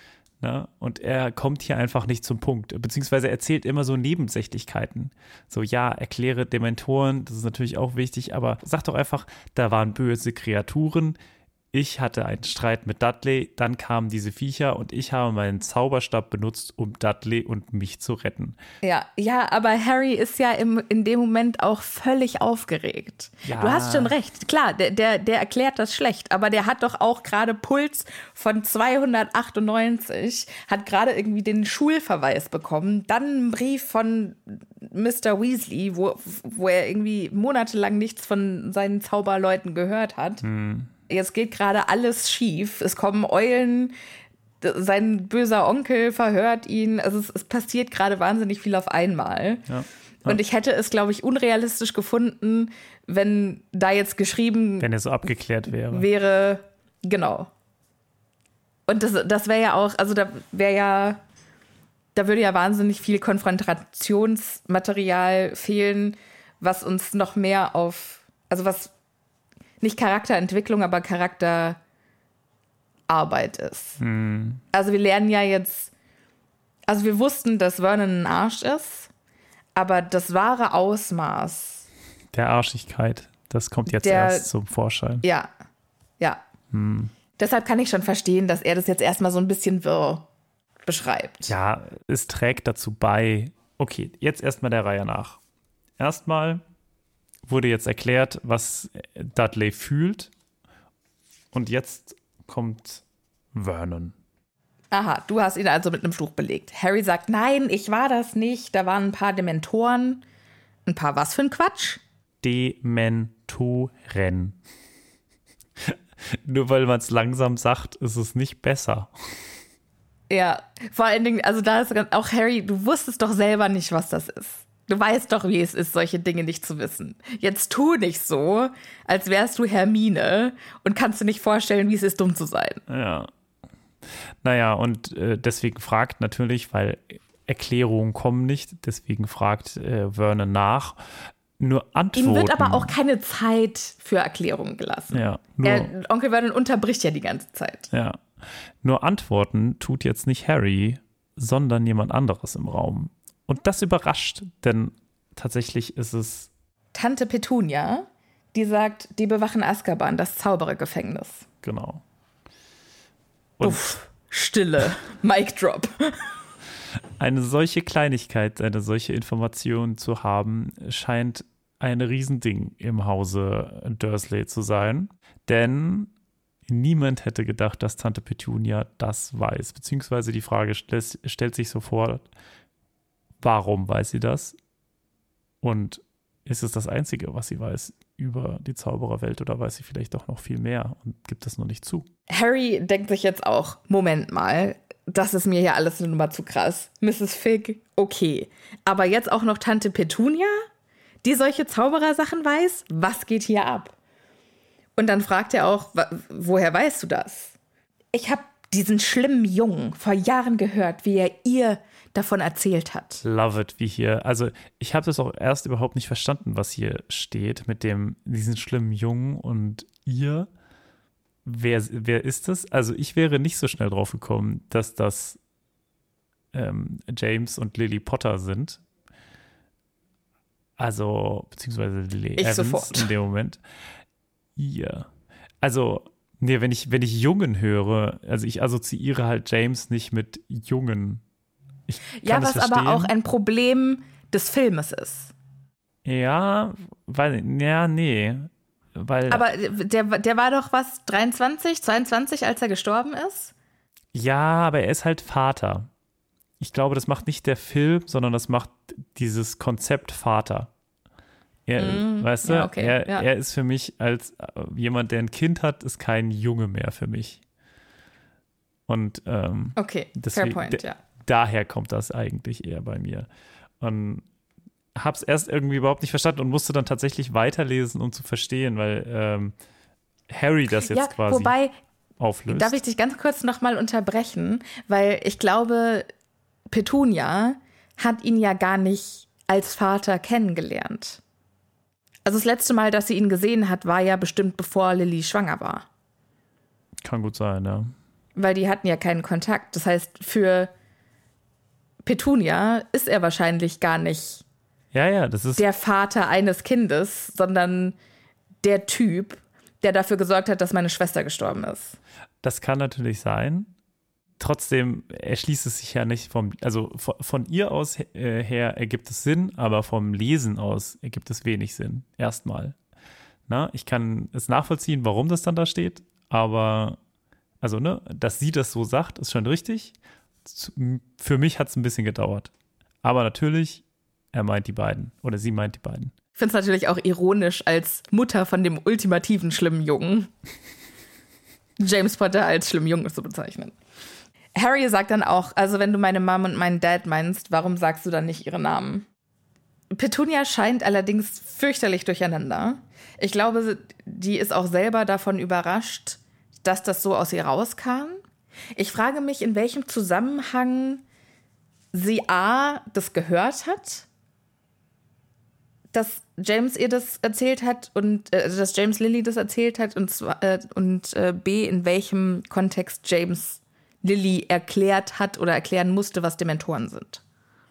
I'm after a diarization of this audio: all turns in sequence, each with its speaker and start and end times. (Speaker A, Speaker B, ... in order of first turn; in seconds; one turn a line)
Speaker A: 0.4-11.2
Speaker A: 11.7-18.6
Speaker B: 18.8-40.4
Speaker A: 23.4-24.1
Speaker A: 40.4-40.9
Speaker B: 41.1-43.9
Speaker B: 44.6-49.6
Speaker A: 49.7-50.4
Speaker B: 50.2-54.9
Speaker A: 54.8-56.1
Speaker B: 55.9-57.5
Speaker B: 58.9-61.2
Speaker B: 62.1-68.9
Speaker B: 69.8-71.8
Speaker B: 73.1-74.0
Speaker A: 74.0-74.6
Speaker B: 74.7-75.9
Speaker B: 76.9-79.1
Speaker B: 79.8-81.9
Speaker A: 82.3-85.2
Speaker B: 83.9-84.5
Speaker B: 85.2-85.5
Speaker A: 86.7-87.1
Speaker B: 87.4-90.3
Speaker B: 90.8-91.5
Speaker A: 91.5-95.4
Speaker A: 96.0-96.6
Speaker A: 97.5-100.3
Speaker A: 101.5-103.0
Speaker A: 103.5-104.2
Speaker B: 104.9-110.2
Speaker B: 110.9-112.0
Speaker A: 112.4-114.6
Speaker A: 115.8-119.1
Speaker B: 120.3-132.8
Speaker A: 132.9-133.3
Speaker A: 134.4-141.0
Speaker A: 141.6-142.9
Speaker B: 142.2-147.9
Speaker A: 145.1-145.9
Speaker A: 147.9-156.5
Speaker B: 156.9-161.4
Speaker A: 161.6-162.0
Speaker A: 163.6-164.0
Speaker B: 163.6-166.3
Speaker A: 167.2-176.1
Speaker A: 176.7-182.3
Speaker A: 183.4-184.6
Speaker A: 185.6-192.1
Speaker B: 192.3-200.6
Speaker B: 201.2-203.9
Speaker B: 205.0-207.6
Speaker B: 208.1-213.2
Speaker A: 213.2-220.5
Speaker A: 221.4-225.4
Speaker A: 226.5-228.8
Speaker A: 230.8-233.6
Speaker B: 232.4-233.1
Speaker A: 234.6-235.1
Speaker A: 235.6-241.2
Speaker A: 241.9-243.1
Speaker B: 242.2-245.3
Speaker A: 246.1-249.4
Speaker B: 249.3-253.5
Speaker A: 254.1-255.9
Speaker A: 256.6-260.7
Speaker A: 261.7-267.4
Speaker B: 261.8-263.3
Speaker A: 268.9-273.3
Speaker B: 269.8-271.0
Speaker A: 273.8-274.2
Speaker A: 274.9-279.5
Speaker A: 280.3-281.6
Speaker B: 280.7-281.7
Speaker A: 282.2-282.8
Speaker B: 282.5-286.1
Speaker B: 286.7-291.2
Speaker B: 292.2-295.9
Speaker A: 297.1-297.9
Speaker B: 298.4-300.7
Speaker B: 302.0-304.4
Speaker A: 304.9-305.6
Speaker B: 305.6-308.0
Speaker B: 308.6-312.0
Speaker A: 312.4-313.7
Speaker A: 314.4-322.8
Speaker A: 323.5-327.0
Speaker A: 327.6-329.9
Speaker A: 330.5-332.5
Speaker A: 333.0-336.1
Speaker B: 336.4-340.3
Speaker B: 341.8-343.8
Speaker B: 344.6-349.1
Speaker B: 349.9-358.2
Speaker B: 358.8-361.0
Speaker B: 361.9-364.1
Speaker B: 365.9-377.2